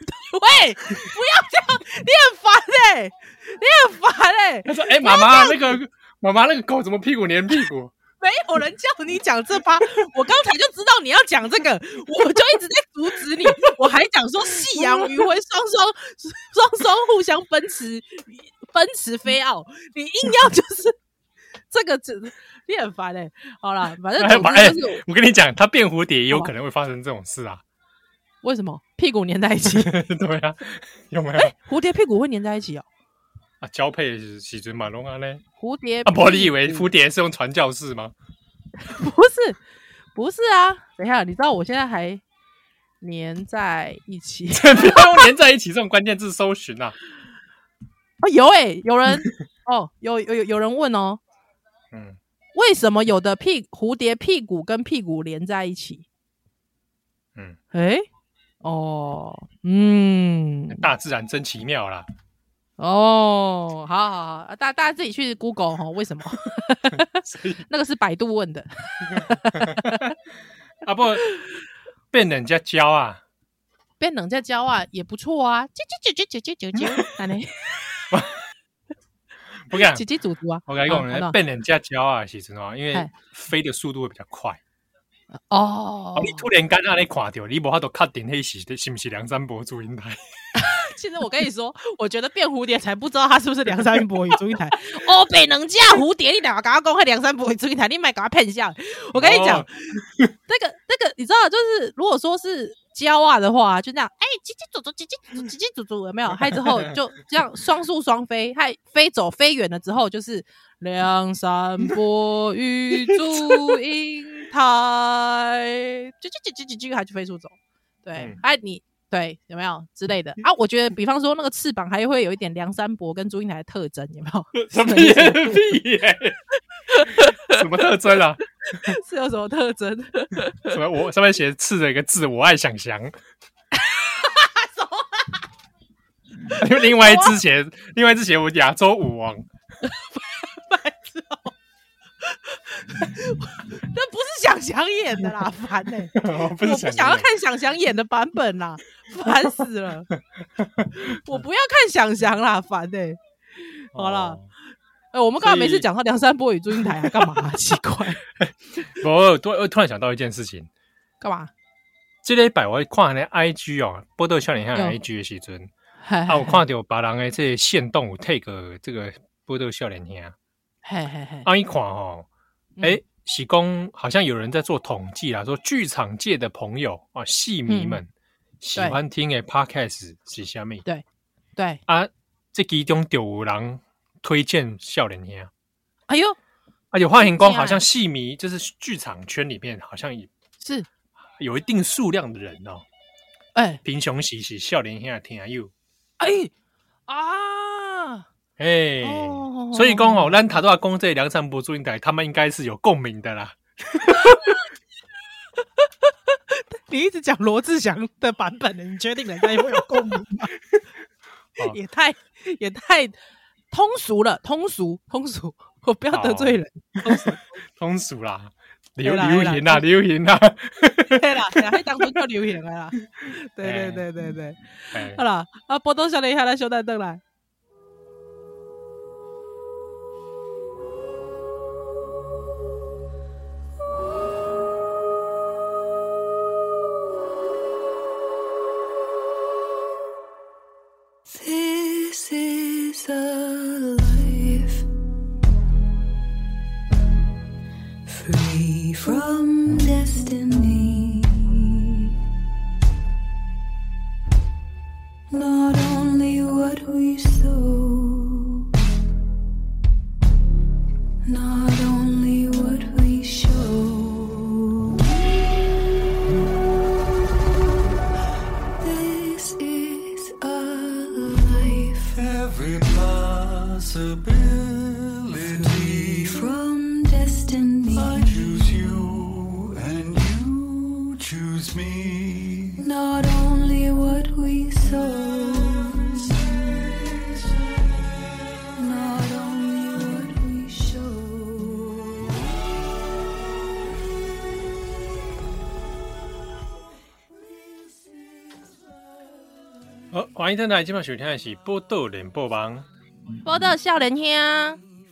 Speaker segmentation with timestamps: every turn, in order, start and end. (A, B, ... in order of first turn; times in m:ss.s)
0:00.2-0:05.8 A
0:04.7-0:07.9 B
0:08.2-0:21.0 A
0:13.4-0:13.7 B
0:14.7-0:15.3 B
0:21.7-0:25.0 A
0:24.2-0:27.6 B
0:28.4-0:29.9 A
0:29.7-0:31.5 B
0:31.4-0:32.9 A
0:33.6-0:35.4 B
0:35.6-0:36.9 A
0:36.0-0:38.1 B
0:38.8-0:39.6 A
0:40.1-0:42.2 A
0:43.0-0:45.3 A
0:44.5-0:47.0 B
0:48.2-0:51.2 A
0:51.9-0:52.2 B
0:52.5-0:56.0 A
0:57.7-0:58.0 A
0:58.6-1:00.8 A
1:00.7-1:02.1 B
1:02.8-1:10.0 A
1:06.9-1:07.6 B
1:09.1-1:10.1 B
1:10.8-1:11.3 B
1:12.1-1:13.2 B
1:14.0-1:18.1 A
1:16.8-1:17.0 B
1:18.1-1:18.4 B
1:19.7-1:20.0 B
1:19.7-1:21.4 A
1:20.7-1:24.6 B
1:25.4-1:26.5 A
1:26.1-1:30.2 B
1:30.5-2:05.7 A
1:39.1-1:40.3 B
1:46.4-1:46.9 B
1:52.9-1:53.8 B
2:04.5-2:06.4 B
2:06.9-2:07.4 A
2:07.2-2:08.9 B
2:08.7-2:10.6 A
2:10.5-2:13.1 B
2:13.7-2:15.4 A
2:16.5-2:17.4 A
2:16.5-2:19.4 B
2:19.8-2:21.5 A
2:22.2-2:30.1 A
2:26.1-2:27.3 B
2:30.1-2:31.0 B
2:30.9-2:33.2 A
2:33.7-2:34.4 A
2:33.9-2:34.5 B
2:35.1-2:38.2 A
2:35.4-2:35.9 B
2:36.8-2:37.3 B
2:38.4-2:40.7 B
2:41.2-2:41.5 A
2:42.2-2:45.7 B
2:46.0-2:46.6 A
2:46.3-2:50.3 B
2:50.8-2:51.5 A
2:51.4-2:52.2 B
2:52.8-2:58.1 B
2:57.7-2:58.0 A
2:58.6-3:00.8 B
3:01.6-3:01.8 A
3:01.9-3:05.5 B
3:06.1-3:06.4 A
3:06.9-3:10.3 B
3:07.2-3:07.8 A
3:10.6-3:10.9 A
3:11.4-3:12.8 B
3:13.5-3:13.8 A
3:13.8-3:15.7 B
3:16.2-3:16.5 A
3:17.1-3:18.2 A
3:18.6-3:24.6 B
3:19.0-3:20.4 A
3:26.3-3:30.6 A
3:31.6-3:33.2 A
3:33.7-3:37.4 A
3:36.1-3:42.2 B
3:39.0-3:39.8 A
3:41.1-3:47.2 A
3:43.6-3:44.0 B
3:44.9-3:45.2 B
4:01.3-4:04.9 C
4:08.0-4:12.1 C
4:15.3-4:18.7 C
4:21.2-4:25.0 C
4:28.8-4:32.2 C
4:32.1-4:36.5 D
4:35.5-4:38.7 C
4:37.9-4:42.8 D
4:42.8-4:46.8 C
4:48.7-4:52.2 C
5:00.1-5:02.9 B
5:03.4-5:04.8 A